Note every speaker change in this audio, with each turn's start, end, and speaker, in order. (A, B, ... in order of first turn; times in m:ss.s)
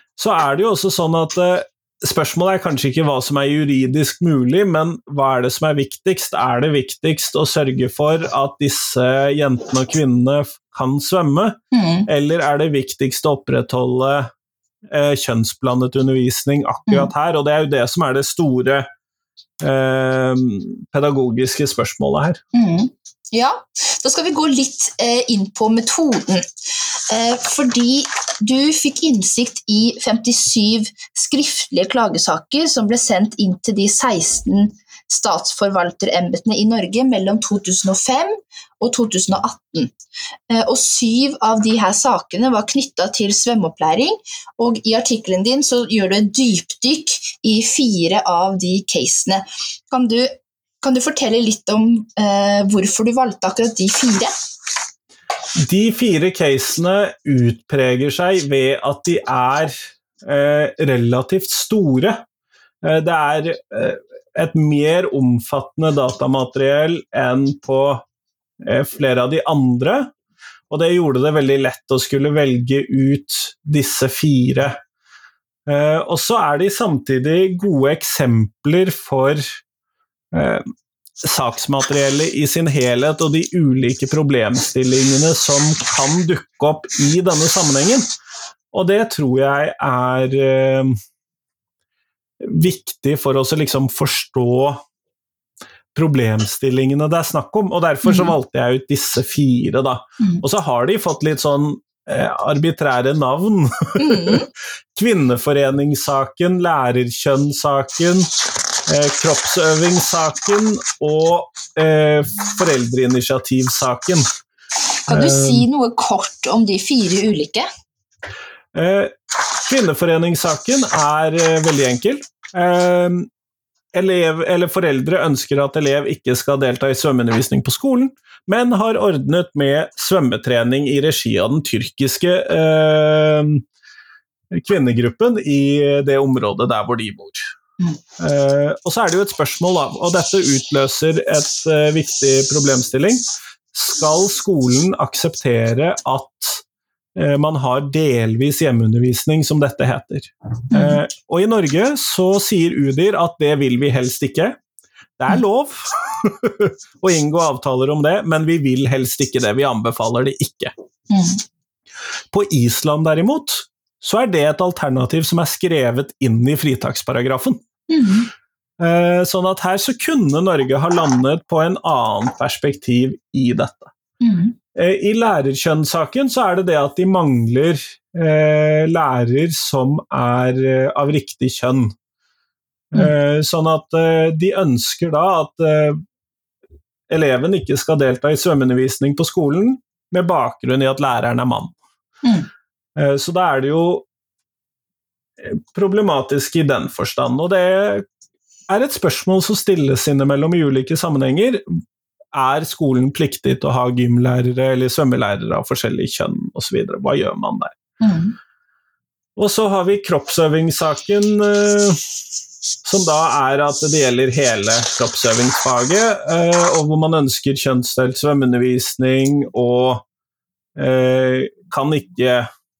0:00.2-0:14.3 A
0:11.7-0:12.1 B
0:14.9-0:18.9 A
0:19.6-0:22.4 A
0:22.5-0:39.9 B
0:40.5-0:54.3 B
0:55.6-1:02.2 A
1:02.8-1:08.0 A
1:08.6-1:10.1 A
1:10.7-1:14.8 A
1:15.7-1:19.6 A
1:20.3-1:20.7 A
1:21.2-1:28.0 A
1:28.7-1:31.0 A
1:32.4-1:34.8 A
1:35.9-1:44.4 A
1:38.0-1:38.3 B
1:44.0-1:44.5 B
1:44.9-1:48.3 A
1:48.9-1:54.3 A
1:55.1-1:57.7 B
1:55.1-1:55.6 A
1:58.7-2:03.3 A
2:03.9-2:13.6 A
2:14.5-2:17.5 A
2:18.2-2:23.2 A
2:23.7-2:26.6 A
2:27.2-2:34.6 A
2:30.7-2:31.0 B
2:35.2-2:40.7 A
2:41.1-2:41.4 B
2:42.3-2:47.6 A
2:47.9-2:48.3 B
2:48.8-2:53.9 A
2:54.2-2:54.6 B
2:54.7-3:01.9 A
3:02.9-3:06.0 A
3:07.1-3:11.7 A
3:13.0-3:14.0 A
3:15.4-3:18.0 A
3:18.7-3:21.8 A
3:22.3-3:27.7 A
3:28.0-3:28.3 B
3:29.4-3:32.0 A
3:32.8-3:40.0 A
3:40.8-3:42.5 A